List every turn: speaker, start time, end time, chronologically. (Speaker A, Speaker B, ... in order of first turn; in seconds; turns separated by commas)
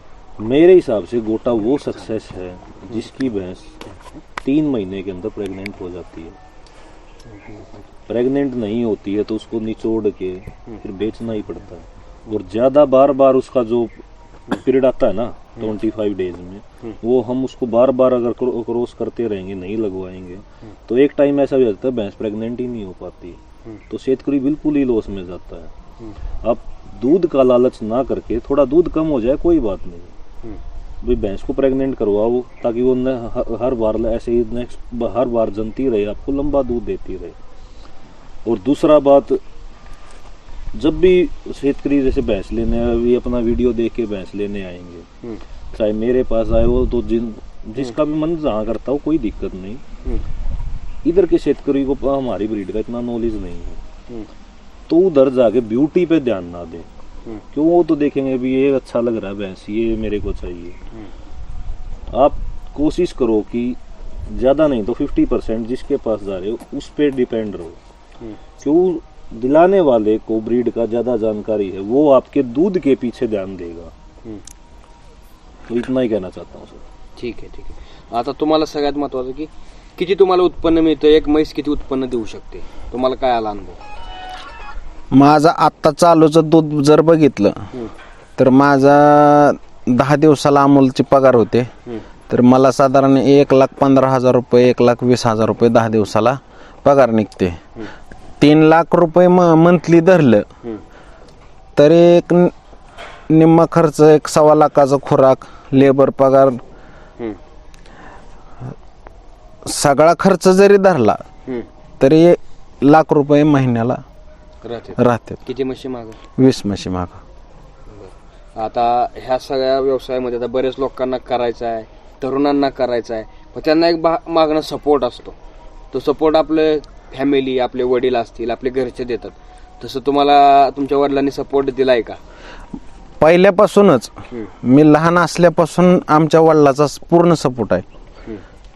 Speaker A: 0.4-3.8, Speaker A: 4.4-6.4, Speaker B: 7.3-7.6, Speaker A: 8.1-14.0, Speaker A: 14.5-25.7, Speaker A: 26.4-30.1, Speaker A: 31.0-37.4, Speaker A: 38.4-39.4, Speaker A: 40.7-45.0, Speaker A: 45.7-49.8, Speaker A: 51.0-53.8, Speaker A: 54.9-56.9, Speaker A: 57.5-60.8, Speaker A: 62.1-67.8, Speaker A: 68.6-73.9, Speaker A: 75.7-76.8, Speaker B: 77.2-83.8, Speaker C: 85.1-87.6, Speaker C: 88.4-91.7, Speaker C: 92.3-97.6, Speaker C: 98.4-100.4, Speaker C: 101.8-102.5, Speaker C: 103.3-106.6, Speaker C: 109.7-111.2, Speaker C: 112.0-114.0, Speaker B: 114.6-116.2, Speaker C: 115.0-115.4, Speaker C: 116.4-117.2, Speaker B: 117.9-125.3, Speaker B: 125.9-132.2, Speaker C: 133.2-137.8